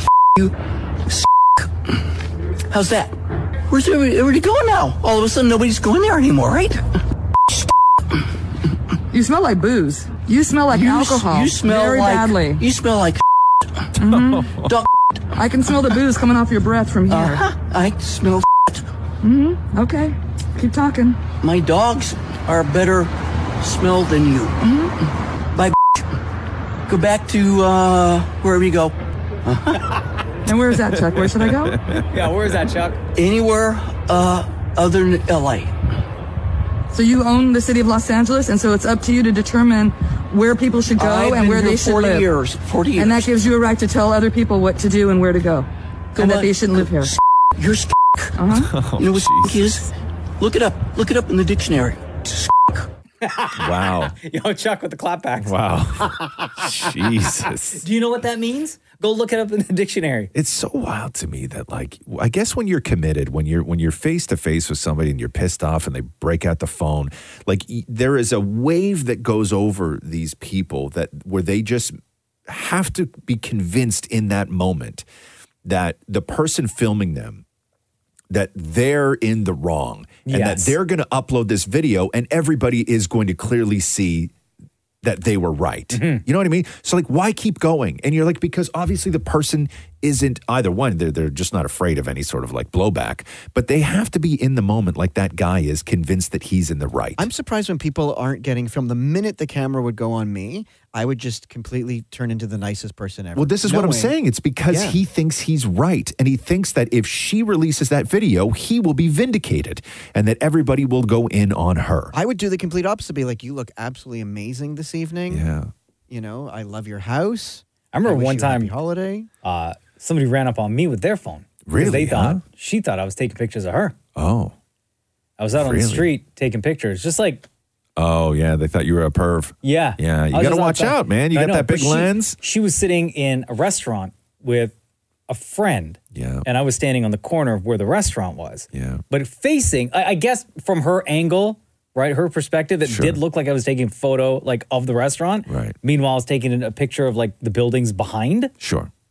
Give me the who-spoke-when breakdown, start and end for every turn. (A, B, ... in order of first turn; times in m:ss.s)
0:01.1-0:01.6 A
0:02.7-0:03.1 A
0:03.7-0:06.8 A
0:09.1-0:12.6 B
0:10.7-0:13.2 A
0:14.0-0:14.6 B
0:14.1-0:14.7 C
0:14.6-0:14.8 A
0:15.4-0:17.4 B
0:17.1-0:18.8 A
0:19.2-0:21.2 B
0:21.4-0:24.9 A
0:25.5-0:26.0 A
0:26.9-0:29.8 A
0:30.4-0:31.8 B
0:30.9-0:32.3 C
0:32.1-0:33.0 D
0:33.1-0:35.7 A
0:36.9-0:42.2 B
0:41.0-0:43.3 A
0:43.0-0:47.1 B
0:46.1-0:48.3 A
0:48.4-0:48.7 B
0:48.5-0:49.7 C
0:49.0-0:49.9 A
0:50.4-0:52.8 A
0:53.2-0:55.5 D
0:53.6-0:54.1 C
0:55.4-0:57.8 C
0:57.8-1:00.3 D
1:00.3-1:12.0 C
1:12.5-1:15.0 C
1:15.6-1:17.4 C
1:18.3-1:24.3 C
1:20.2-1:20.8 D
1:25.0-1:37.3 C
1:25.9-1:26.2 D
1:37.2-1:44.1 E
1:43.4-1:52.1 C
1:44.7-1:45.0 E
1:52.1-1:55.5 E
1:55.3-1:55.7 C
1:56.1-1:59.3 E
1:57.9-1:58.7 D
1:59.4-2:03.9 D
2:01.6-2:02.4 C
2:04.1-2:04.5 C
2:05.4-2:07.4 D
2:05.6-2:06.1 C
2:08.0-2:12.4 C
2:09.6-2:14.7 D
2:15.3-2:28.5 D
2:16.1-2:16.4 C
2:18.7-2:19.0 C
2:22.8-2:23.2 C
2:25.4-2:25.8 C
2:28.6-2:28.9 C